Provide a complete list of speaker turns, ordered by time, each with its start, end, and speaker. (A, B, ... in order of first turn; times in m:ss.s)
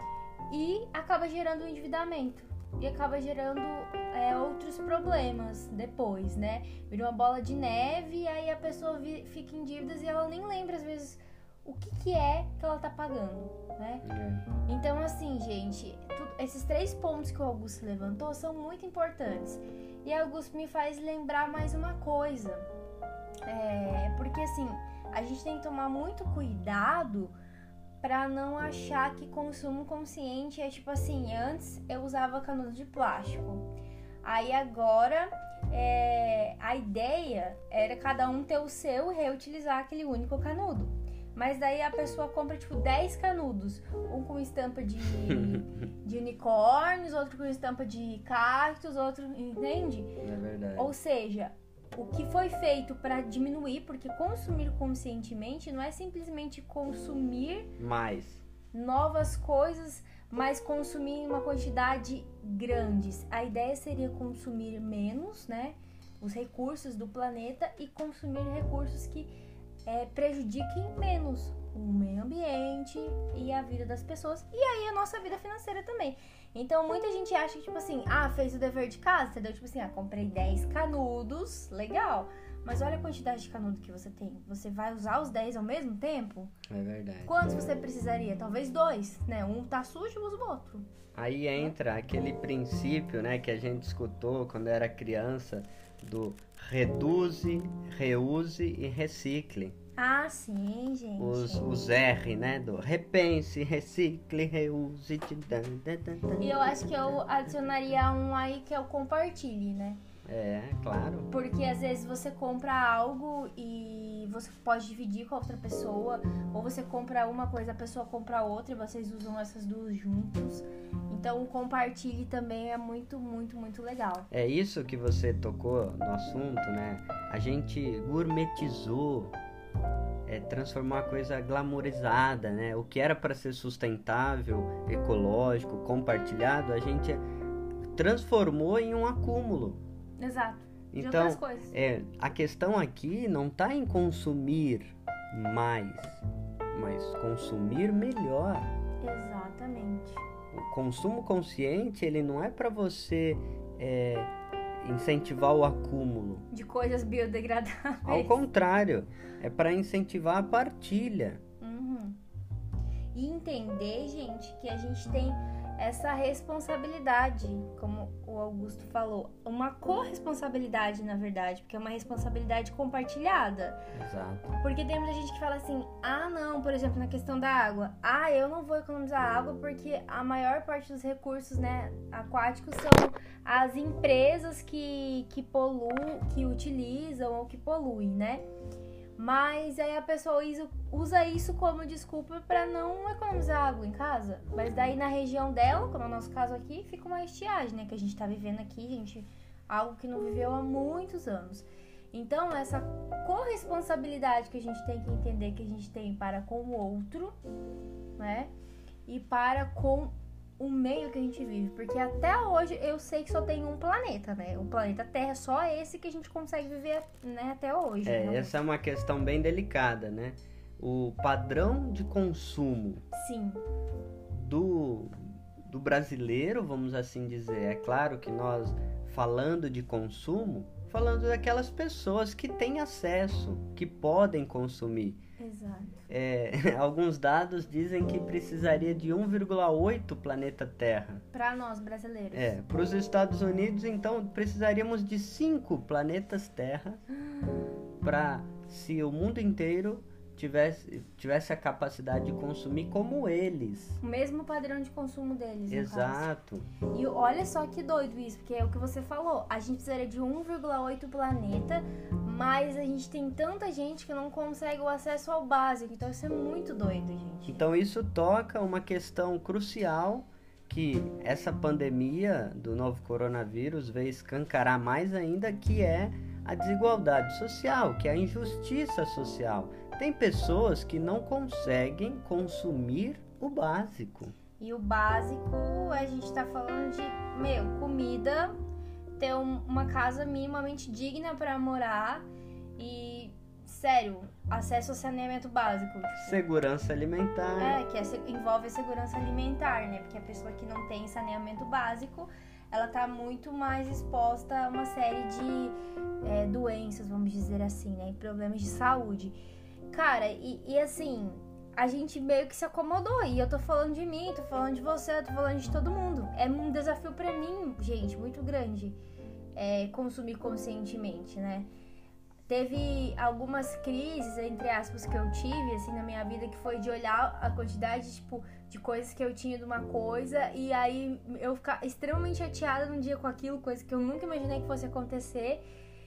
0:00.5-0:14.1 A
0:14.0-0:14.5 B
0:14.7-0:22.7 A
0:23.5-0:27.4 A
0:28.0-0:33.7 A
0:34.2-0:50.2 A
0:45.3-0:45.6 B
0:50.2-0:50.9 B
0:50.8-0:57.7 A
0:57.8-0:58.4 B
0:58.7-1:09.3 A
1:09.9-1:26.5 A
1:26.7-1:27.4 B
1:27.3-1:30.9 A
1:31.2-1:39.8 B
1:40.0-1:41.9 A
1:41.2-1:47.2 B
1:46.4-1:50.0 A
1:50.3-1:51.3 B
1:51.3-2:04.3 A
2:04.3-2:09.3 B
2:10.3-2:17.2 B
2:17.9-2:19.8 B
2:20.2-2:21.8 A
2:20.9-2:28.7 B
2:29.0-2:30.2 A
2:30.5-2:36.4 B
2:36.5-2:38.4 A
2:38.0-2:41.4 B
2:41.6-2:42.2 A
2:43.1-2:53.8 A
2:53.9-2:54.6 B
2:54.6-3:08.5 A
3:09.2-3:27.4 A
3:28.2-3:28.5 A
3:29.1-3:38.5 A
3:38.0-3:43.0 B
3:43.1-3:43.6 A
3:44.3-3:55.2 B
3:55.4-3:56.1 A
3:56.1-4:01.2 B
4:01.3-4:02.6 A
4:02.3-4:07.0 B
4:08.0-4:14.0 B
4:14.0-4:16.3 A
4:15.7-4:16.7 B
4:16.9-4:27.7 A
4:27.5-4:44.3 B
4:44.6-4:48.6 A
4:49.2-4:52.3 A
4:52.8-4:56.4 A
4:56.2-4:57.8 B
4:57.6-5:09.4 A
5:09.9-5:19.0 A
5:19.6-5:21.7 A
5:22.5-5:35.6 A